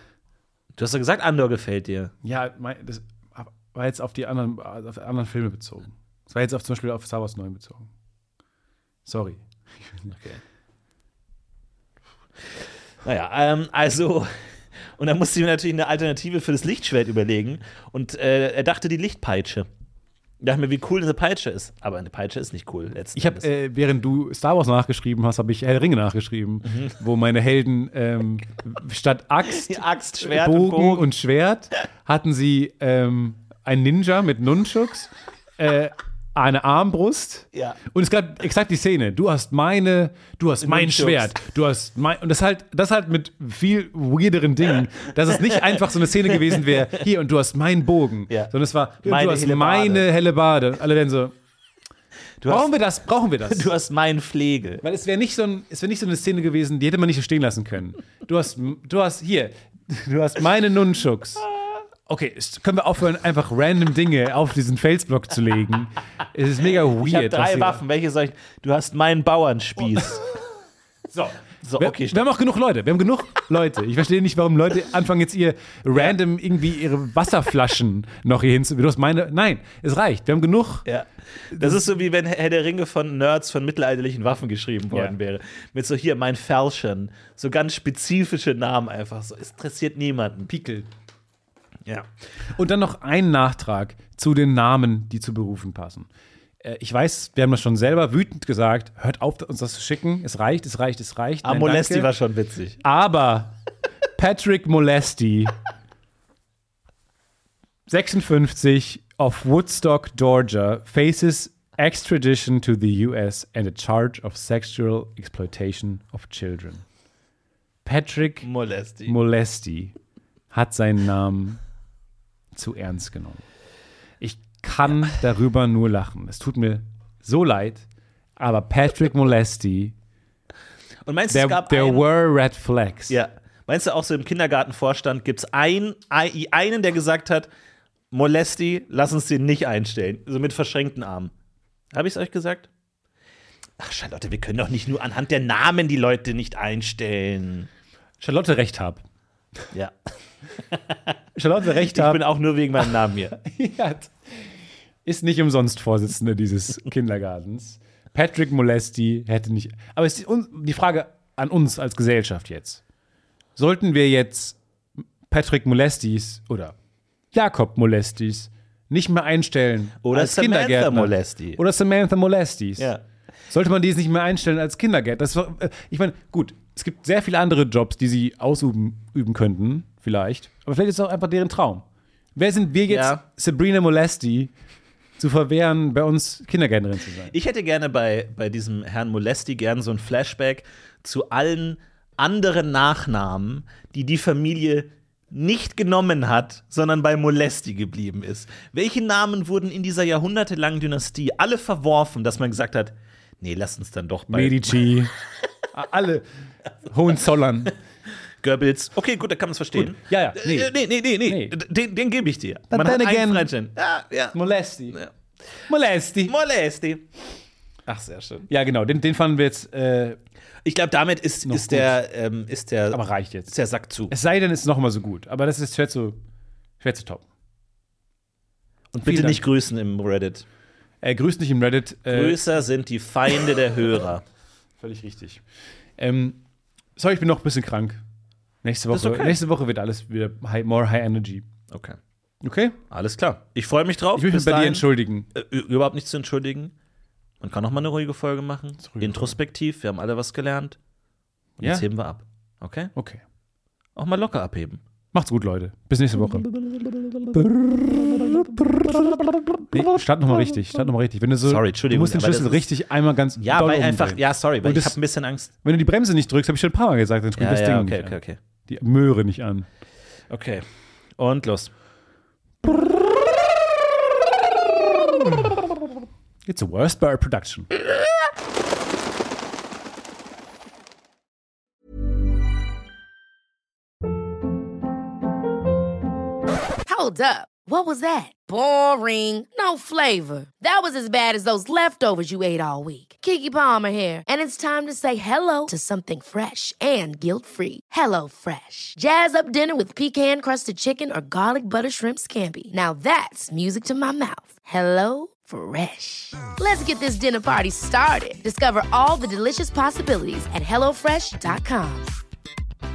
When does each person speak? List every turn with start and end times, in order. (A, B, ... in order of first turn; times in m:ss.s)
0:00.8-0:02.1 A
0:02.2-0:07.9 B
0:09.0-0:10.1 B
0:10.1-0:10.4 A
0:13.0-0:14.3 A
0:15.0-0:19.7 A
0:20.4-0:23.5 A
0:23.1-0:51.4 B
0:29.5-0:31.0 A
0:37.5-0:37.8 A
0:40.6-0:41.3 A
0:49.0-0:50.1 A
0:52.4-0:52.7 A
0:52.4-0:53.7 B
0:53.4-0:54.8 A
0:54.8-1:01.4 B
1:02.1-1:07.8 B
1:07.0-1:10.2 A
1:11.1-1:20.9 B
1:11.6-1:12.2 A
1:20.8-1:30.5 A
1:21.5-1:21.8 B
1:30.5-1:30.9 B
1:32.6-1:36.1 B
1:36.6-1:42.1 B
1:41.4-1:42.8 A
1:42.8-1:43.5 B
1:44.2-1:45.6 B
1:47.9-1:56.8 B
1:57.8-1:58.5 B
1:58.4-1:59.2 A
1:59.0-1:59.9 B
2:00.5-2:01.6 B
2:02.5-2:03.4 B
2:04.2-2:07.8 B
2:08.4-2:09.9 B
2:11.0-2:12.1 A
2:11.3-2:13.2 B
2:13.1-2:17.5 A
2:18.1-2:21.3 A
2:21.9-2:22.7 A
2:23.8-2:27.7 A
2:28.2-2:29.0 B
2:31.4-2:32.2 B
2:31.9-2:33.4 A
2:33.4-2:34.5 B
2:35.0-2:42.8 B
2:43.6-2:44.6 B
2:45.3-2:46.7 B
2:47.3-2:52.9 B
2:50.0-2:51.6 A
2:53.5-3:04.5 B
3:02.9-3:03.2 A
3:05.2-3:07.3 B
3:07.3-3:24.9 A
3:24.3-3:25.1 B
3:25.7-3:26.2 B
3:26.9-3:27.7 B
3:28.4-3:34.4 A
3:29.7-3:31.6 B
3:32.7-3:33.5 B
3:34.3-3:35.0 B
3:35.7-3:36.4 B
3:36.3-3:37.0 A
3:37.9-3:38.5 A
3:38.5-3:40.2 B
3:40.6-3:44.2 A
3:41.4-3:42.0 B
3:42.9-3:43.5 B
3:44.1-3:46.2 B
3:46.8-3:47.2 B
3:48.9-3:50.4 A
3:49.0-3:49.4 B
3:51.0-3:52.4 B
3:52.1-3:54.2 A
3:54.8-3:55.4 B
3:56.0-3:56.4 B
3:57.0-3:58.0 B
3:58.6-4:01.4 B
3:58.9-3:59.4 A
4:01.7-4:02.0 A
4:02.4-4:02.8 B
4:02.9-4:06.7 A
4:04.2-4:05.3 B
4:07.4-4:10.8 A
4:08.8-4:09.4 B
4:11.6-4:11.8 B
4:11.6-4:12.9 A
4:12.9-4:13.2 B
4:14.0-4:14.8 A
4:15.1-4:25.0 B
4:21.4-4:22.6 A
4:23.4-4:25.5 A
4:25.6-4:29.7 B
4:27.4-4:28.4 A
4:30.3-4:30.6 A
4:31.2-4:31.7 A
4:36.4-4:37.7 B
4:46.9-5:12.2 C